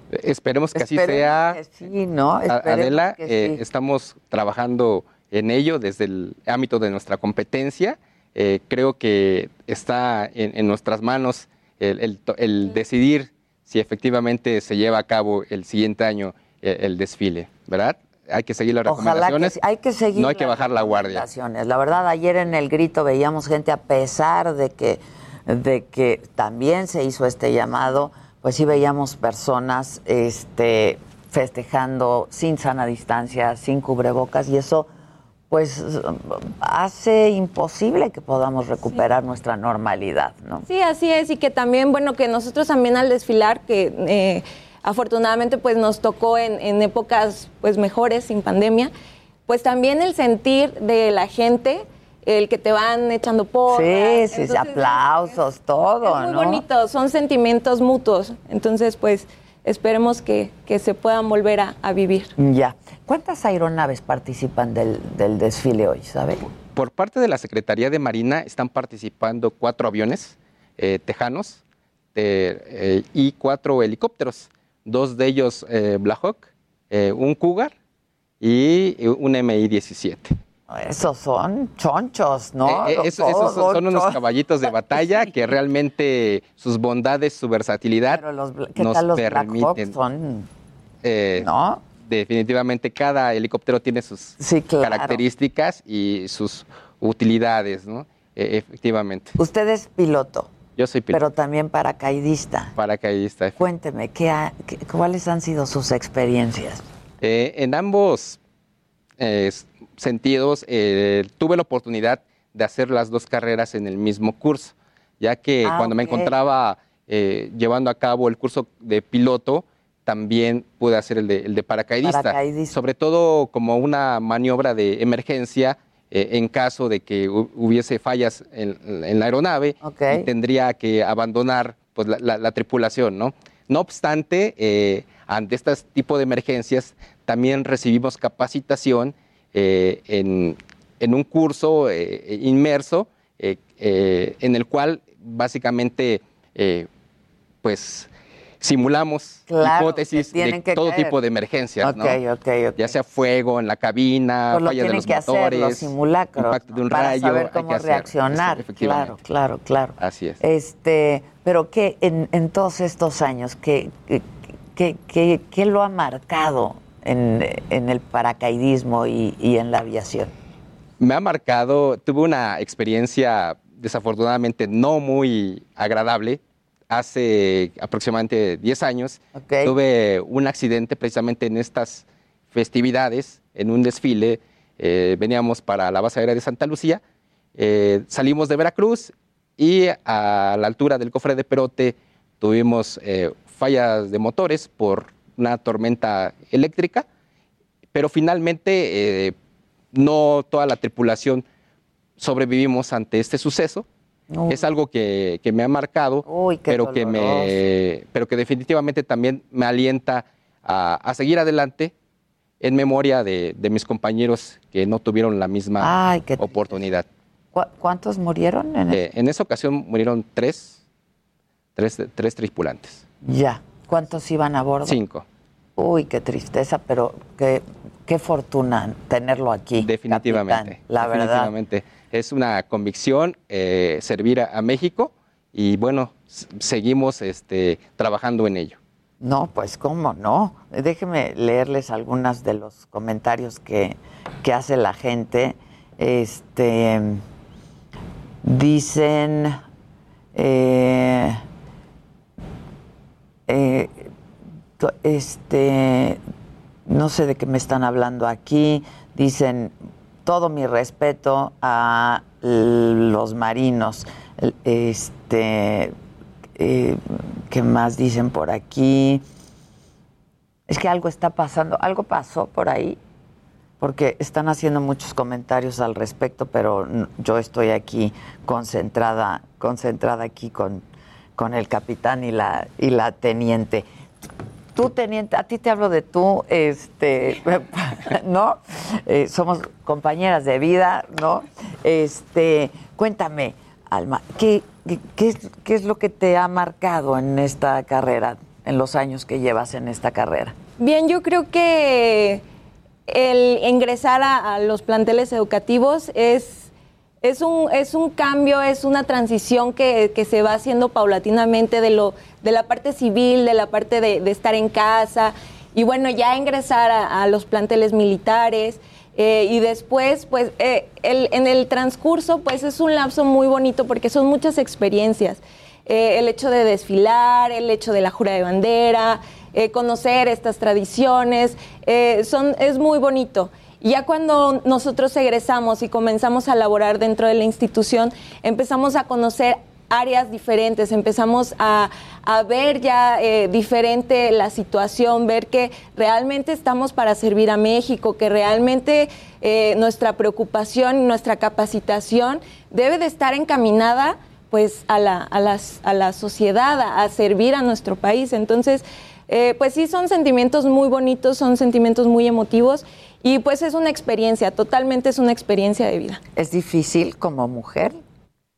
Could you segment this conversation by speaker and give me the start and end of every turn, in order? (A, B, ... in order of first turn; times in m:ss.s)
0:00.1-0:01.6 A
0:00.7-0:03.6 B
0:02.5-0:19.5 A
0:18.8-0:34.9 B
0:20.1-0:21.2 A
0:35.5-0:40.6 B
0:40.7-0:48.9 C
0:49.5-0:55.0 C
0:53.7-0:56.6 B
0:56.0-1:02.3 C
1:02.4-1:06.4 B
1:06.7-1:11.6 A
1:12.1-1:17.7 A
1:18.4-1:20.3 A
1:20.7-1:24.2 B
1:22.6-1:28.2 A
1:24.7-1:25.3 B
1:28.1-1:30.5 B
1:28.8-1:29.9 A
1:31.0-1:31.5 A
1:31.4-1:31.8 B
1:32.0-1:39.3 A
1:34.4-1:35.2 B
1:39.4-1:40.5 B
1:40.8-1:41.2 A
1:41.1-1:42.7 B
1:42.8-1:43.6 A
1:43.6-1:46.8 B
1:47.2-1:48.4 A
1:49.2-2:26.9 A
1:55.6-1:56.3 B
2:02.0-2:02.7 B
2:09.8-2:10.2 B
2:27.6-2:28.1 A
2:28.6-2:32.2 A
2:29.5-2:31.2 B
2:31.8-2:32.9 B
2:32.8-2:39.2 A
2:34.5-2:50.3 B
2:40.0-2:40.4 A
2:51.0-3:07.0 A
2:59.4-2:59.7 B
3:07.6-3:17.0 A
3:17.9-3:19.3 A
3:19.9-3:21.4 A
3:22.2-3:23.8 A
3:24.3-3:24.7 B
3:24.5-3:31.9 A
3:26.2-3:27.6 B
3:32.6-3:37.0 A
3:35.8-3:36.8 B
3:37.5-3:39.0 B
3:38.9-3:40.8 A
3:41.8-3:43.0 A
3:43.2-3:45.0 B
3:44.8-3:45.2 A
3:45.8-3:51.5 B
3:49.8-3:58.8 A
3:59.2-4:07.2 B
4:08.4-4:09.6 B
4:10.3-4:11.4 B
4:13.5-4:14.1 B
4:14.8-4:16.2 B
4:16.9-4:25.9 B
4:26.6-4:29.2 B
4:30.7-4:33.0 B
4:33.8-4:40.8 B
4:41.4-4:43.9 B
4:44.7-5:00.5 B
5:00.8-5:02.4 C
5:03.1-5:06.7 C
5:07.2-6:06.2 C
6:06.4-6:08.0 B